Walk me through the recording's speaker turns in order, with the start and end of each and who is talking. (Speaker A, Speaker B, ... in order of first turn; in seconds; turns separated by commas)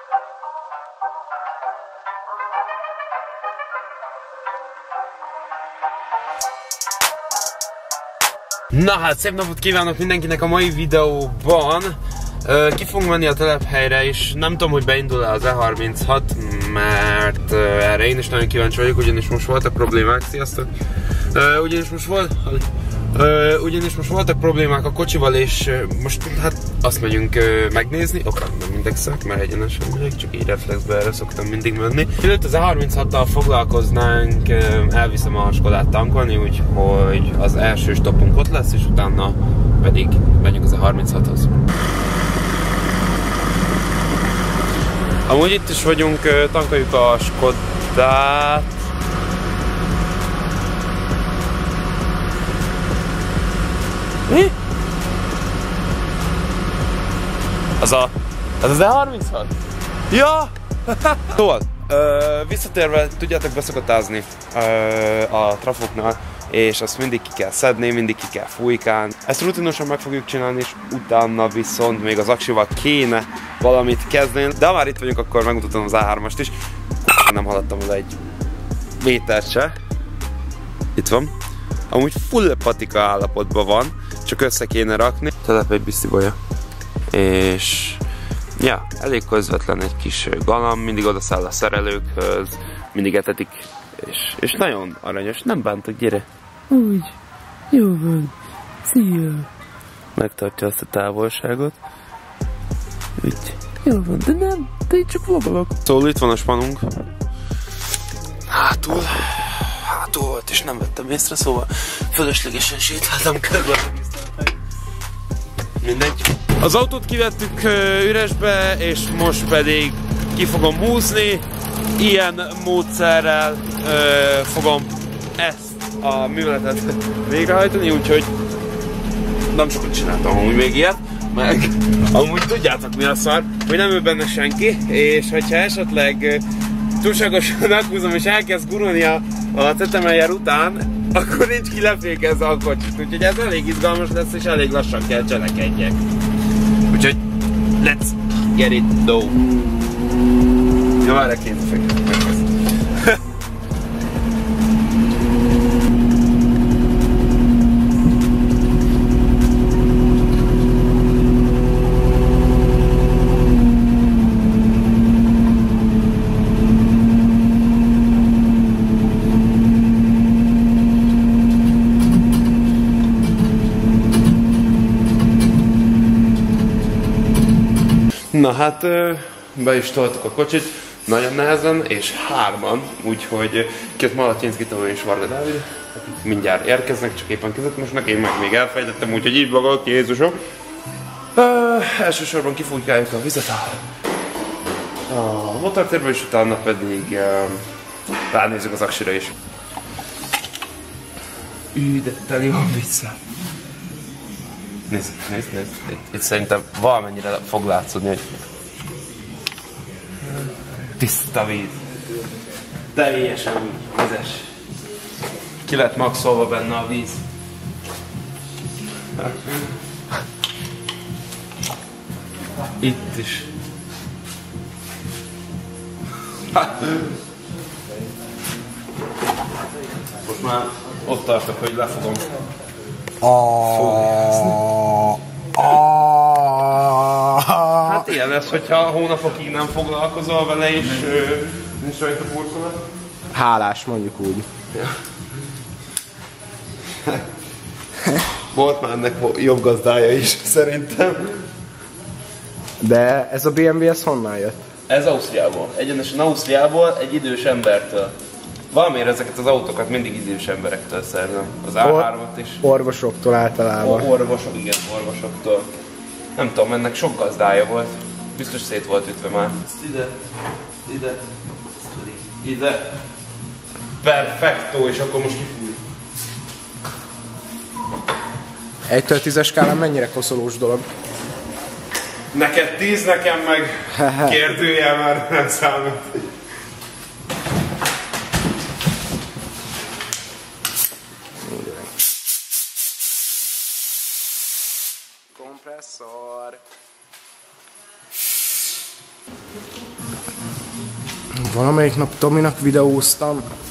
Speaker A: 8.7-20.7, Speaker A: 21.3-41.6, Speaker A: 45.2-48.8, Speaker A: 54.3-54.5, Speaker A: 57.8-59.5, Speaker A: 60.1-78.2, Speaker A: 79.0-79.7, Speaker A: 80.9-81.3, Speaker A: 81.9-86.4, Speaker A: 87.1-88.0, Speaker A: 88.6-97.1, Speaker A: 97.7-99.5, Speaker A: 100.1-101.8, Speaker A: 103.2-106.9, Speaker A: 108.5-114.5, Speaker A: 115.8-121.4, Speaker A: 122.0-128.3, Speaker A: 129.5-136.4, Speaker A: 137.0-146.0, Speaker A: 146.9-147.2, Speaker A: 147.8-149.4, Speaker A: 151.0-153.2, Speaker A: 178.3-190.4, Speaker A: 191.3-193.8, Speaker A: 195.1-197.6, Speaker A: 198.3-199.3, Speaker A: 201.7-203.2, Speaker A: 204.9-208.3, Speaker A: 211.0-211.8, Speaker A: 212.9-214.5, Speaker A: 215.6-217.2, Speaker A: 219.2-219.5, Speaker A: 222.8-223.5, Speaker A: 226.5-227.0, Speaker A: 230.2-232.3, Speaker B: 233.2-238.1, Speaker A: 233.6-234.6, Speaker A: 237.8-242.8, Speaker B: 243.3-244.5, Speaker A: 247.0-247.2, Speaker A: 248.5-251.4, Speaker B: 252.8-254.6, Speaker A: 254.9-258.1, Speaker A: 258.7-262.6, Speaker B: 261.8-264.1, Speaker A: 263.8-265.7, Speaker A: 266.4-270.1, Speaker A: 270.9-271.2, Speaker A: 271.8-272.9, Speaker A: 274.0-275.8, Speaker B: 278.9-280.9, Speaker A: 282.3-286.2, Speaker B: 284.0-284.3, Speaker B: 295.3-296.6, Speaker B: 301.4-303.4